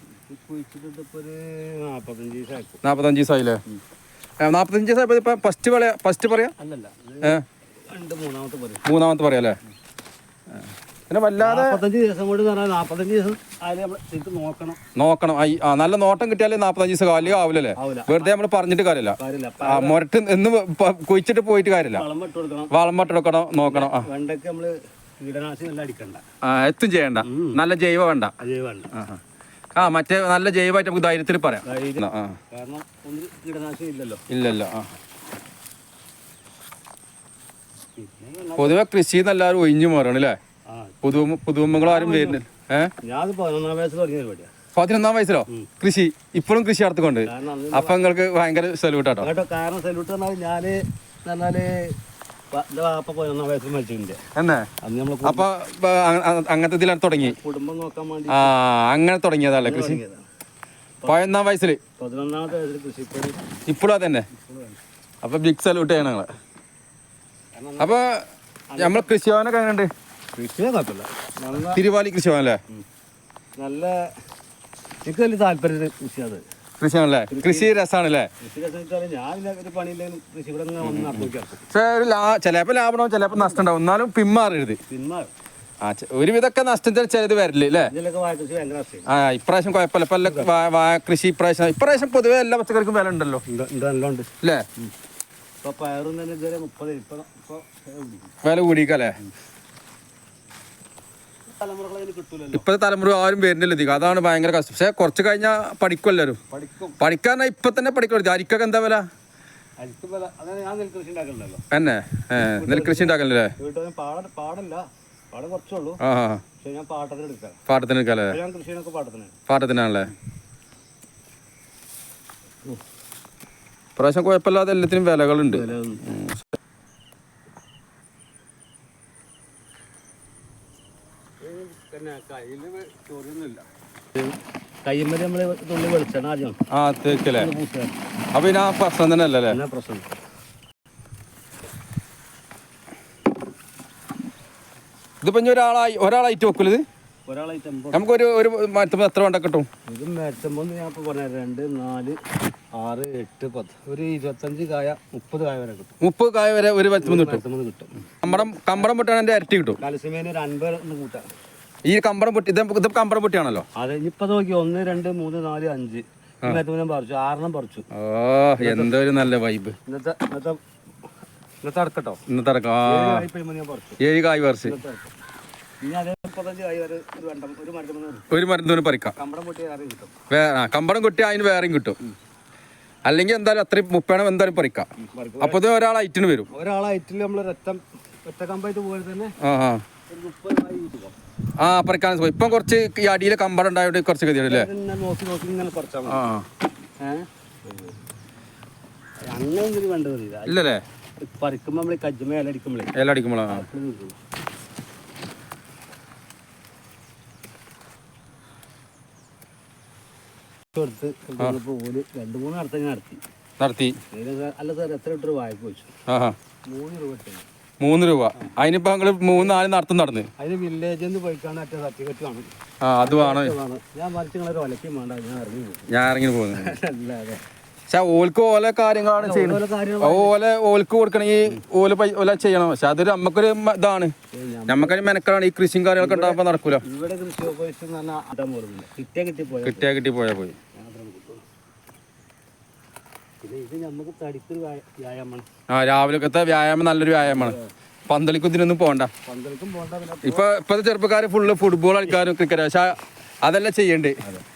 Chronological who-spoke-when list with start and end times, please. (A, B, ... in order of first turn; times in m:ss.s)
0:00.3-0:02.8 A
0:02.8-0:03.6 B
0:04.4-0:06.5 B
0:06.6-0:08.8 A
0:08.8-0:09.6 B
0:11.1-0:11.8 B
0:11.4-0:14.8 A
0:15.0-0:22.0 B
0:17.2-0:18.3 A
0:19.2-0:20.0 A
0:21.9-0:22.7 A
0:22.7-0:24.1 B
0:23.6-0:26.2 A
0:26.4-0:28.3 B
0:27.2-0:27.6 A
0:28.4-0:28.9 A
0:28.9-0:29.2 B
0:29.7-0:32.4 B
0:31.6-0:34.2 A
0:34.3-0:34.9 B
0:38.0-0:38.8 A
0:38.6-0:40.4 B
0:40.7-0:41.0 A
0:41.0-0:42.9 B
0:41.8-0:42.4 A
0:43.0-0:44.5 A
0:44.7-0:49.3 B
0:47.2-0:48.0 A
0:49.2-0:52.0 A
0:52.5-0:54.2 A
0:54.3-0:54.7 B
0:54.8-0:55.5 A
0:55.2-0:57.4 B
0:57.2-0:58.5 A
0:58.3-1:00.0 B
0:59.6-1:00.2 A
1:01.0-1:01.8 B
1:02.0-1:03.5 A
1:03.7-1:04.3 B
1:04.3-1:04.8 A
1:05.2-1:06.3 B
1:07.5-1:08.0 A
1:07.8-1:08.2 B
1:08.7-1:09.1 A
1:08.8-1:09.9 B
1:10.3-1:11.8 A
1:11.7-1:12.6 B
1:13.6-1:14.1 A
1:15.0-1:16.4 A
1:16.8-1:18.3 B
1:17.3-1:17.7 A
1:18.4-1:21.6 A
1:20.8-1:24.8 B
1:23.3-1:23.6 A
1:24.9-1:25.3 A
1:25.8-1:27.9 B
1:27.8-1:29.1 A
1:29.1-1:33.4 B
1:30.2-1:30.5 A
1:33.5-1:34.9 A
1:35.6-1:38.3 A
1:38.4-1:39.2 B
1:41.6-1:42.6 A
1:42.5-1:46.4 B
1:46.5-1:47.0 A
1:47.0-1:49.0 B
1:49.8-1:51.6 A
1:51.7-1:53.5 B
1:52.5-1:56.0 A
1:56.0-1:56.4 B
1:56.6-1:57.6 A
1:57.7-1:58.4 B
1:58.3-1:59.3 A
1:59.5-2:00.1 B
2:04.0-2:06.4 B
2:05.5-2:06.1 A
2:11.4-2:13.6 A
2:14.2-2:16.6 A
2:16.7-2:17.5 B
2:17.1-2:18.0 A
2:18.3-2:19.6 B
2:19.5-2:20.1 A
2:25.2-2:26.8 B
2:27.3-2:28.1 A
2:27.9-2:29.7 B
2:29.8-2:32.2 A
2:32.7-2:35.9 A
2:36.0-2:37.4 B
2:37.0-2:38.9 A
2:38.2-2:39.8 B
2:39.8-2:41.2 A
2:41.8-2:43.6 B
2:43.7-2:47.8 A
2:47.9-2:49.7 B
2:48.6-2:49.0 A
2:49.9-2:50.6 A
2:51.6-2:52.2 A
2:52.3-2:53.3 B
2:52.8-2:54.0 A
2:54.0-2:54.8 B
2:54.6-2:55.1 A
2:55.8-2:58.3 A
2:58.3-2:59.1 B
2:59.2-3:00.1 A
3:00.3-3:02.0 B
3:03.0-3:04.9 B
3:05.0-3:05.6 A
3:05.4-3:06.5 B
3:06.5-3:09.3 A
3:09.4-3:09.8 B
3:10.1-3:11.2 A
3:11.6-3:14.7 B
3:14.4-3:16.2 A
3:16.0-3:16.4 B
3:17.0-3:17.9 A
3:19.3-3:20.6 A
3:20.4-3:20.8 B
3:21.2-3:22.9 A
3:22.9-3:23.6 B
3:23.5-3:24.2 A
3:30.7-3:33.2 A
3:33.6-3:34.0 B
3:34.1-3:35.9 A
3:36.1-3:36.4 B
3:36.7-3:37.4 A
3:37.8-3:40.3 B
3:40.4-3:42.5 A
3:42.8-3:43.5 B
3:43.0-3:45.9 A
3:45.9-3:46.7 B
3:46.5-3:47.4 A
3:47.9-3:54.1 B
3:49.2-3:50.3 A
3:54.3-3:55.0 A
3:54.7-3:56.8 B
3:56.0-3:59.9 A
3:59.6-4:00.6 B
4:00.7-4:01.4 A
4:03.4-4:05.4 A
4:05.7-4:07.6 B
4:07.2-4:07.7 A
4:08.1-4:09.1 B
4:09.2-4:10.4 A
4:10.2-4:14.2 B